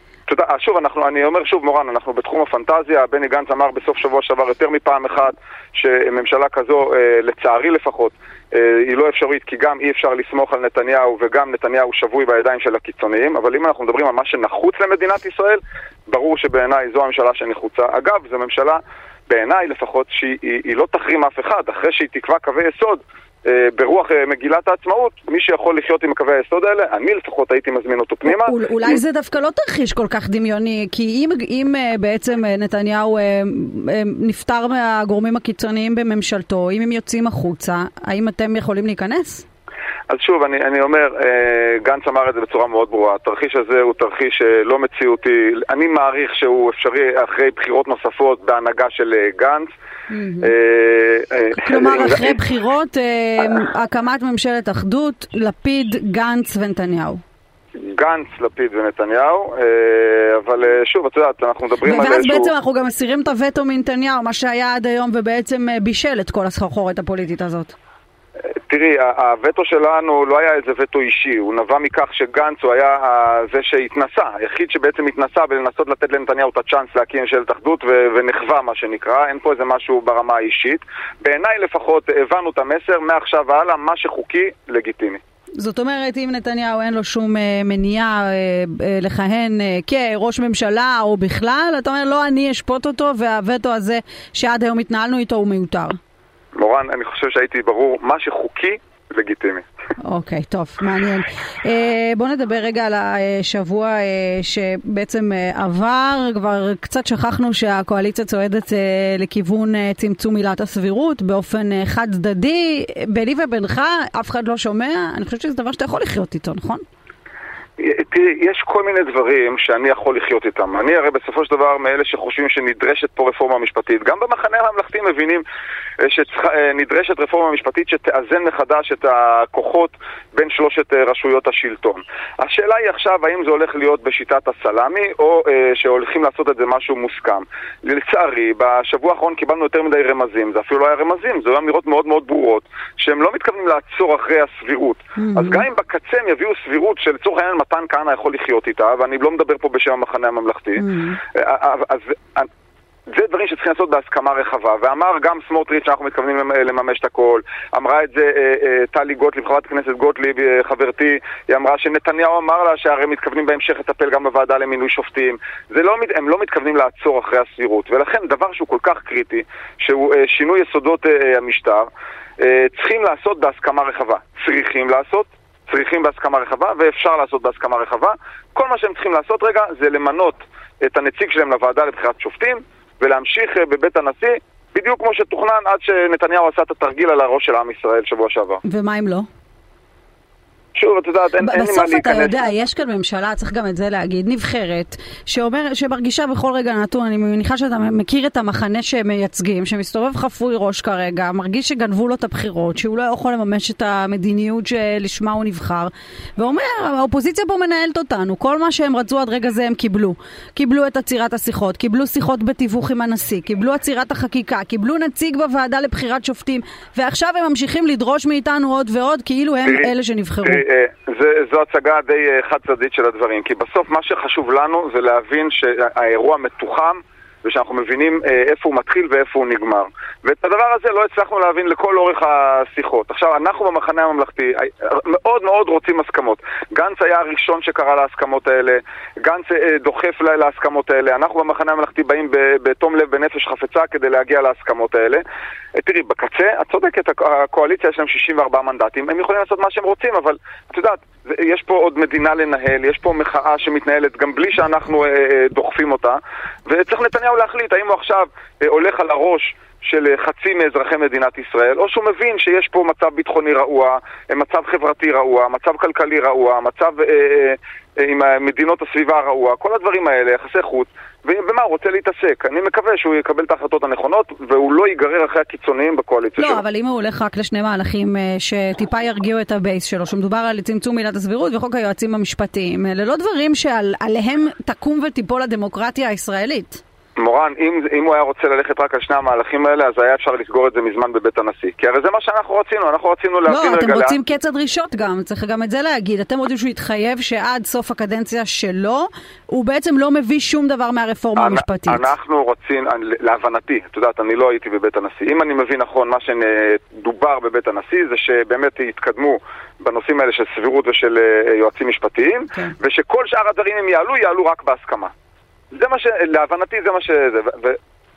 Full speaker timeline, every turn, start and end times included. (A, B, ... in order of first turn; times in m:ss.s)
0:00.3-0:29.0 A
0:28.2-0:39.4 B
0:40.1-0:49.7 A
0:50.1-0:50.5 B
0:50.4-0:52.4 A
0:51.5-0:57.2 B
0:57.8-1:02.5 A
1:01.8-1:07.7 B
1:08.7-1:25.2 A
1:25.6-1:36.0 B
1:36.6-1:39.6 A
1:40.0-1:56.8 B
1:57.8-2:05.4 A
2:06.0-2:30.8 A
2:25.2-2:25.6 B
2:30.8-2:31.2 B
2:31.3-2:32.5 A
2:33.1-2:51.9 A
2:52.4-3:08.6 A
3:08.6-3:09.3 B
3:10.8-3:12.4 A
3:11.4-3:40.6 B
3:40.4-4:05.2 A
4:05.8-4:36.6 A
4:36.4-4:46.8 B
4:47.2-4:54.2 A
4:53.5-5:02.1 B
5:01.4-5:15.1 A
5:15.7-5:17.8 A